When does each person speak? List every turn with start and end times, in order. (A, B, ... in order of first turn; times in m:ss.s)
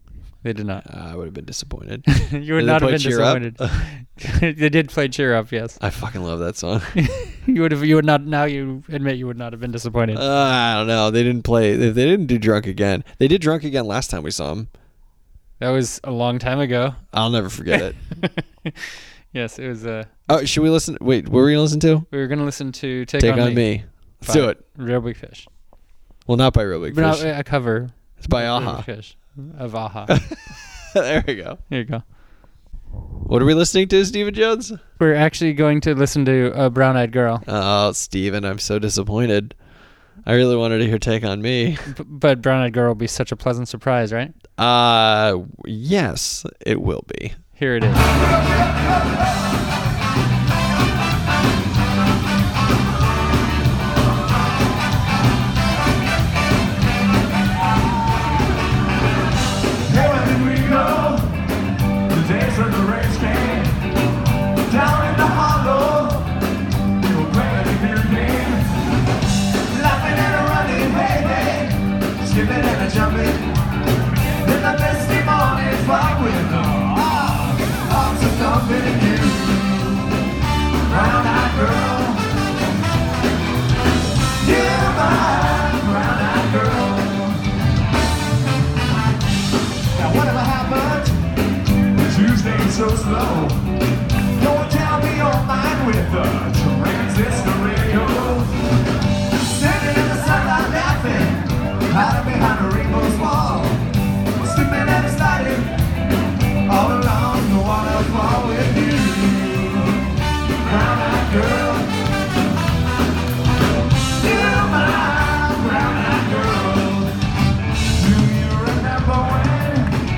0:00.4-0:00.8 A
0:00.8-0:03.9 B
0:02.1-0:05.8 A
0:05.8-0:07.0 B
0:07.0-0:10.2 A
0:10.1-0:14.7 B
0:15.6-0:17.0 A
0:17.1-0:18.0 B
0:17.7-0:20.1 A
0:20.3-0:22.1 B
0:22.1-0:23.7 A
0:23.2-0:24.6 B
0:24.2-0:25.5 A
0:26.2-0:27.3 B
0:26.9-0:30.1 A
0:28.2-0:28.9 B
0:30.1-0:31.6 B
0:31.7-0:32.0 A
0:33.2-0:34.8 B
0:35.0-0:37.4 A
0:37.4-0:39.6 B
0:40.2-0:41.9 B
0:41.9-0:44.3 A
0:44.6-0:47.4 B
0:47.6-0:48.1 A
0:59.8-1:01.4 C
1:02.1-1:03.8 C
1:04.7-1:06.3 C
1:07.0-1:08.7 C
1:09.7-1:13.4 C
1:14.4-1:20.1 C
1:20.9-1:22.2 C
1:24.4-1:27.4 C
1:29.9-1:31.2 C
1:32.0-1:33.6 C
1:34.4-1:38.5 C
1:39.4-1:43.8 C
1:44.4-1:45.7 C
1:46.7-1:50.0 C
1:50.6-1:51.9 C
1:54.2-1:57.1 C
1:57.9-2:00.0 C